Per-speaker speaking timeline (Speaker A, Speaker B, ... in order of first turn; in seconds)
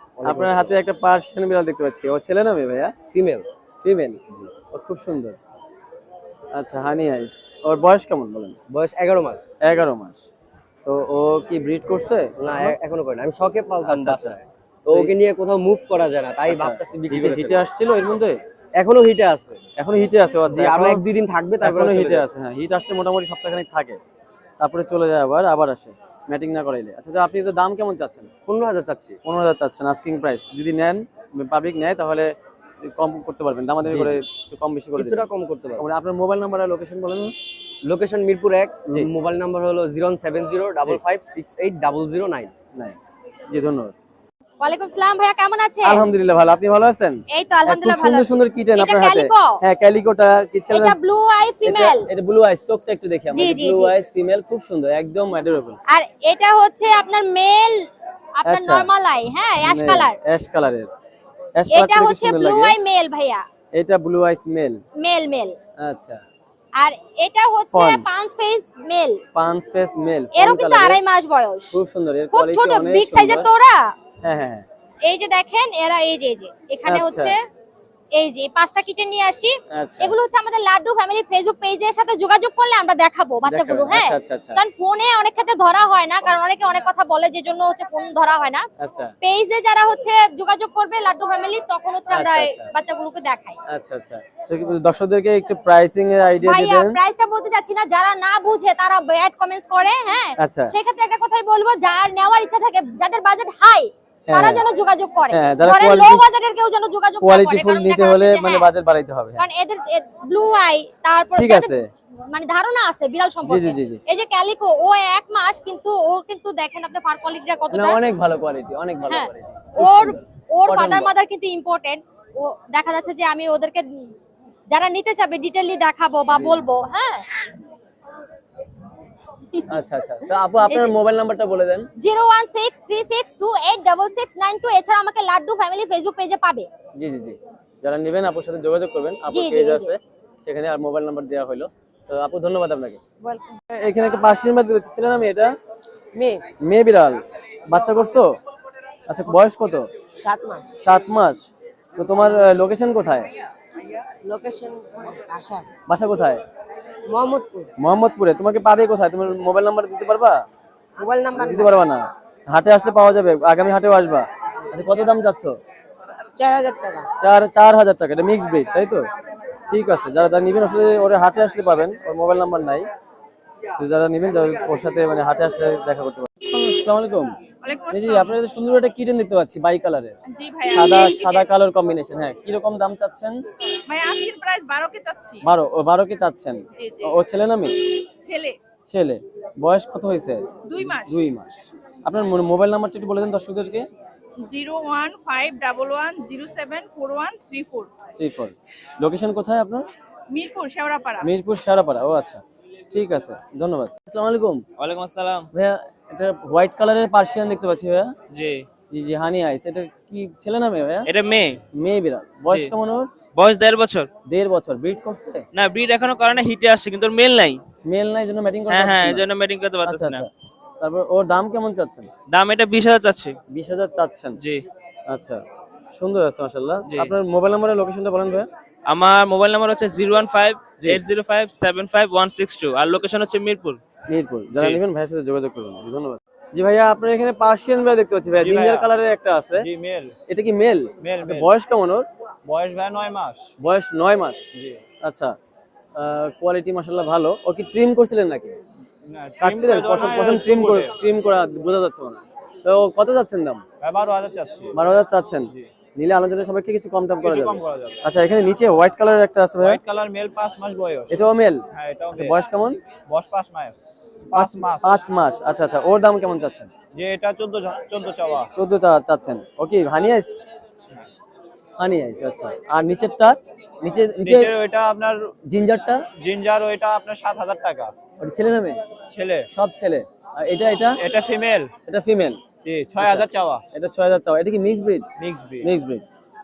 Speaker A: 0.2-0.7, 3.1-3.5, 8.7-9.4, 12.4-17.7, 18.8-19.6, 20.5-22.3, 28.5-29.2, 33.9-34.2, 35.0-35.9, 37.9-42.5
Speaker B: 0.2-2.9, 3.8-5.4, 6.5-8.6, 9.6-10.2, 10.8-12.8, 13.8-14.4, 16.5-18.4, 19.8-21.1, 21.6-24.0, 24.6-28.3, 29.2-35.2, 35.8-37.3, 43.5-43.9, 45.8-51.0, 51.6-55.8, 58.5-58.9, 59.6-60.9, 61.6-62.8, 63.8-64.8, 65.8-66.2, 67.7-68.0, 69.3-71.0, 71.7-73.5, 74.2-74.7, 76.9-77.3, 79.7-80.2, 83.5-84.6, 88.8-89.2, 92.1-92.7, 93.7-97.0, 100.4-100.7, 104.3-104.6, 105.3-106.2, 107.2-109.4, 111.4-111.9, 113.5-114.0, 117.7-121.1, 126.3-126.6, 129.7-131.9, 137.0-143.0, 143.7-145.5, 146.6-148.4, 149.1-149.9, 150.8-151.5, 152.0-153.3, 155.9-156.4, 157.8-160.4, 161.4-165.6, 167.2-169.1, 169.7-172.9, 173.8-177.3, 177.9-180.2, 180.7-183.4, 185.4-187.7, 188.9-193.9, 198.2-199.9, 201.2-204.6, 205.5-208.1, 208.9-211.1, 211.7-213.1, 214.3-215.5, 217.9-219.3, 219.9-220.3, 220.8-222.1, 223.5-224.4, 225.1-225.4, 225.9-228.5, 230.8-231.0, 234.1-239.7, 240.3-242.1, 243.6-244.4, 245.0-245.4, 246.0-248.6, 249.4-253.6, 254.7-259.8, 261.1-262.8, 264.3-266.7, 268.6-270.4, 271.8-274.6, 275.5-276.0, 278.2-278.8, 279.5-281.0, 281.9-282.4, 283.0-285.1, 285.6-286.0
Speaker C: 44.6-46.0, 47.3-49.6, 50.7-52.0, 53.3-53.9, 55.9-57.9, 58.4-60.1, 61.7-63.4, 65.0-65.6, 66.8-69.2, 70.3-71.8, 72.3-73.9, 75.0-77.4, 78.1-88.7, 89.2-93.6, 96.4-108.7, 109.4-111.7, 112.3-118.0, 119.1-124.1, 124.7-127.3, 130.7-130.9, 132.0-136.7, 139.3-139.9, 143.2-143.5
Speaker D: 146.1-146.4, 150.2-150.8, 153.8-155.7, 157.1-157.7, 161.0-161.8, 166.4-167.1
Speaker E: 177.6-178.3, 180.3-181.5, 183.9-185.4, 186.8-187.2, 188.2-188.6, 190.7-191.3, 194.5-197.9, 200.3-201.3
Speaker F: 204.8-205.5, 208.3-208.7, 211.1-211.6, 212.5-212.7, 213.3-214.1, 215.5-217.6, 218.7-220.3, 222.3-223.4, 224.4-224.6, 226.9-227.1, 228.9-233.8, 234.5-234.8
Speaker G: 238.4-238.9, 239.7-240.1, 241.0-241.5, 242.5-243.4, 249.4-250.9, 253.8-254.7, 257.2-258.0, 259.7-261.1, 261.8-262.4, 263.1-263.8, 264.3-265.0, 267.0-268.5, 274.2-275.2, 276.2-277.9, 279.1-279.4, 281.0-281.7, 282.6-283.6, 285.2-285.6